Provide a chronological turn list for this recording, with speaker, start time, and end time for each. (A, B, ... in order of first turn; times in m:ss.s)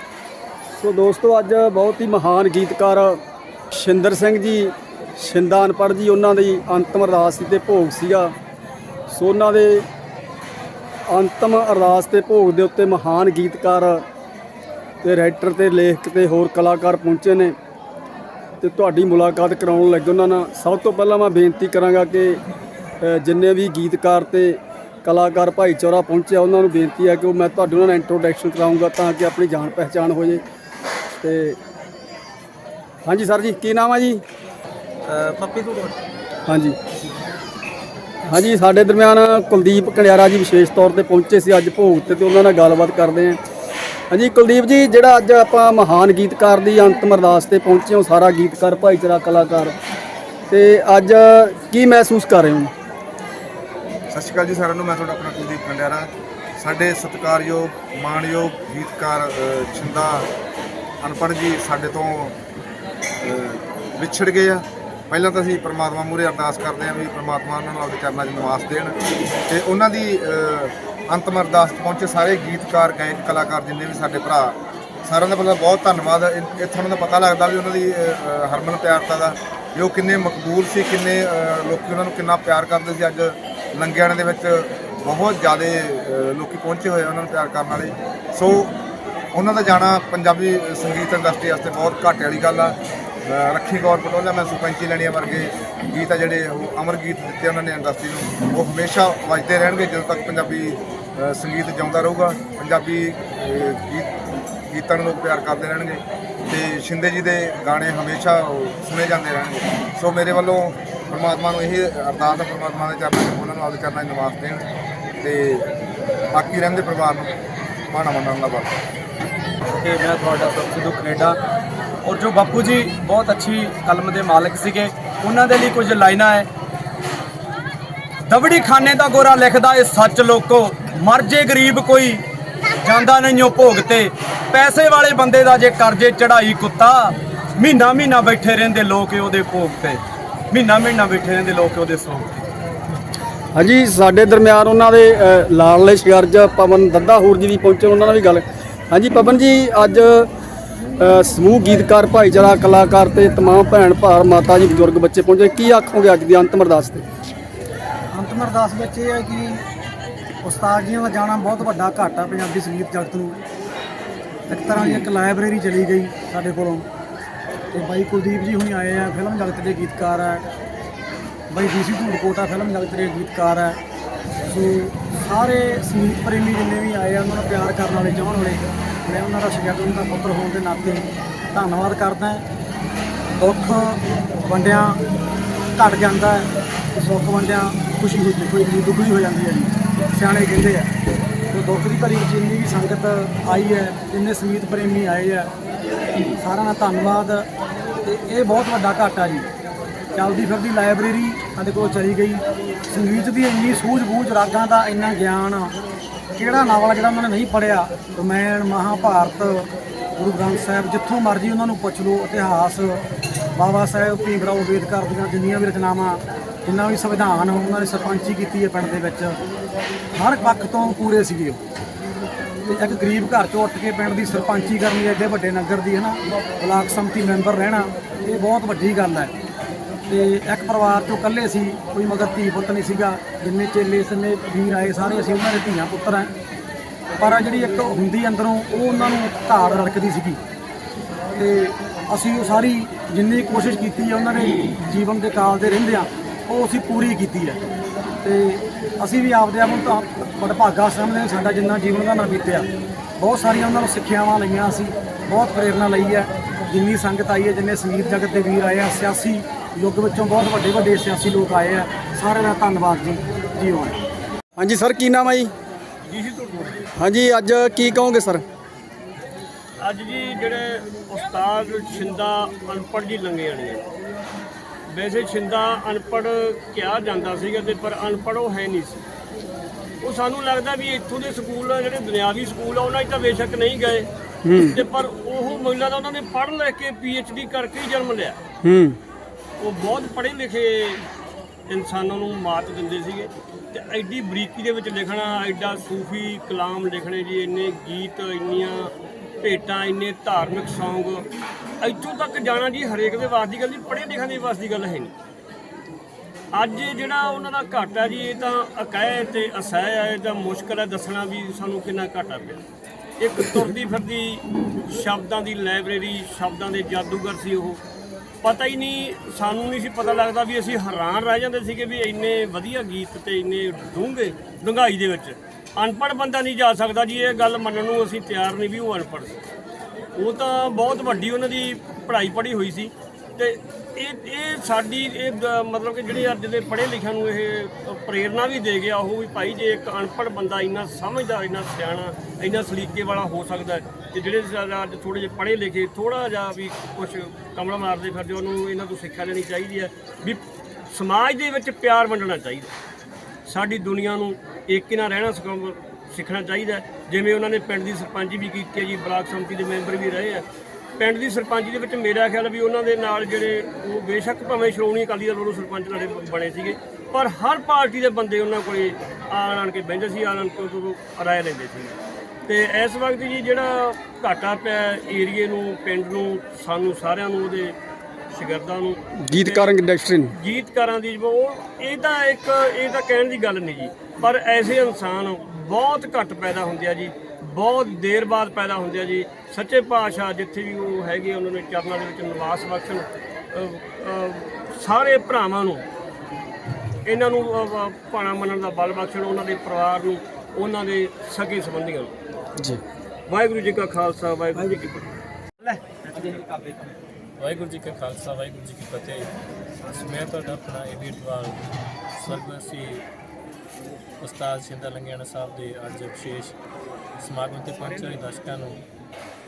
0:00.7-0:03.2 A
0:03.7-0:08.3 A
0:09.1-0:09.9 A
0:11.1-0:14.0 A
0:15.0-0:17.6 A
0:18.6-0:22.4 A
0:23.0-0:30.4 A
0:31.2-0:31.6 A
0:33.0-0:34.2 A
0:35.1-0:35.9 B
0:36.5-0:36.8 A
0:38.3-0:43.4 A
0:44.1-0:49.8 A
0:50.5-0:52.7 A
0:54.1-1:00.3 C
1:01.0-1:02.4 C
1:03.2-1:08.9 C
1:09.5-1:28.7 C
1:29.3-1:44.1 C
1:44.7-1:54.7 C
1:55.2-1:55.7 C
1:56.3-1:57.3 C
1:57.9-1:58.7 C
1:59.8-2:01.4 B
2:02.0-2:06.5 B
2:08.2-2:12.2 B
2:12.8-2:22.4 B
2:23.5-2:30.3 A
2:31.0-2:37.0 A
2:38.1-2:39.6 D
2:40.4-2:43.4 D
2:44.5-2:46.8 D
2:47.7-2:50.4 D
2:51.5-2:53.8 D
2:54.5-3:02.4 D
3:03.4-3:05.0 D
3:05.8-3:10.9 D
3:11.5-3:15.5 D
3:16.2-3:17.5 D
3:18.0-3:19.5 D
3:20.1-3:25.7 D
3:26.4-3:33.0 D
3:33.5-3:39.4 D
3:40.1-3:41.6 D
3:42.7-3:49.3 D
3:50.1-3:56.3 D
3:57.2-4:00.4 D
4:01.4-4:07.6 D
4:08.2-4:24.0 D
4:24.6-4:25.5 A
4:26.1-4:26.9 E
4:27.0-4:28.4 A
4:29.8-4:33.8 E
4:34.9-4:39.0 E
4:40.0-4:48.4 E
4:44.4-4:44.8 A
4:48.6-4:49.0 A
4:49.6-4:51.0 E
4:51.7-4:58.9 E
4:59.4-5:01.2 E
5:01.8-5:05.1 E
5:06.5-5:12.6 E
5:13.2-5:17.8 E
5:18.4-5:29.4 E
5:30.2-5:52.7 E
5:53.5-6:00.4 E
6:01.0-6:12.0 E
6:12.5-6:17.8 E
6:18.3-6:19.8 E
6:19.3-6:20.3 A
6:20.4-6:35.8 E
6:37.1-6:42.1 E
6:43.3-6:45.1 E
6:46.5-6:46.9 B
6:47.4-6:49.3 F
6:49.9-6:51.6 F
6:52.2-6:53.0 F
6:54.2-6:56.6 F
6:57.2-6:58.8 F